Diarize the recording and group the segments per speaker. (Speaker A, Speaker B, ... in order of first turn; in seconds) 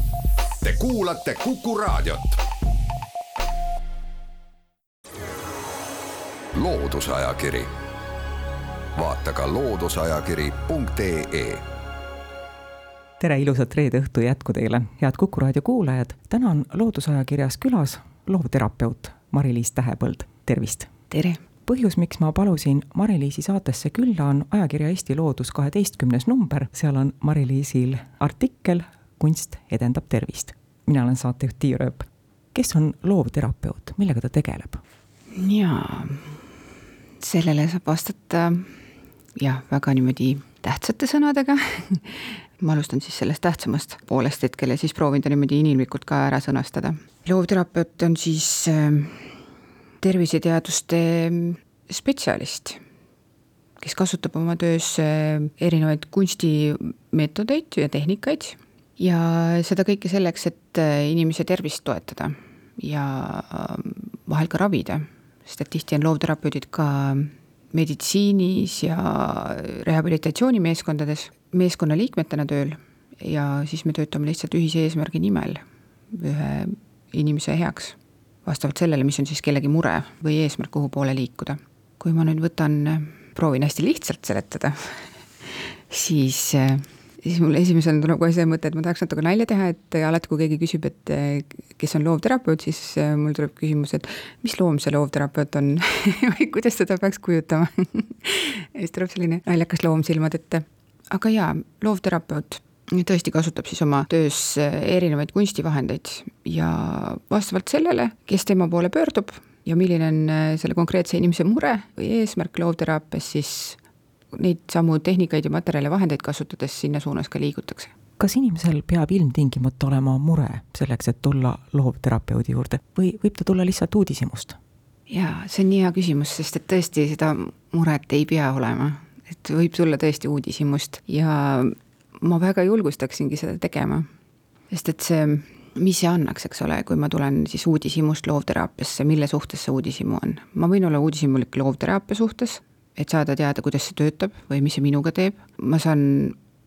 Speaker A: 0.6-2.4, 6.5-7.7, 8.9-11.6
Speaker B: 13.2-20.9, 21.6-34.8, 118.2-124.6
Speaker C: 21.1-21.4, 35.3-36.4, 37.2-38.7, 39.4-49.4, 50.0-52.8, 53.8-113.8, 114.3-117.9, 125.1-134.1, 134.7-146.4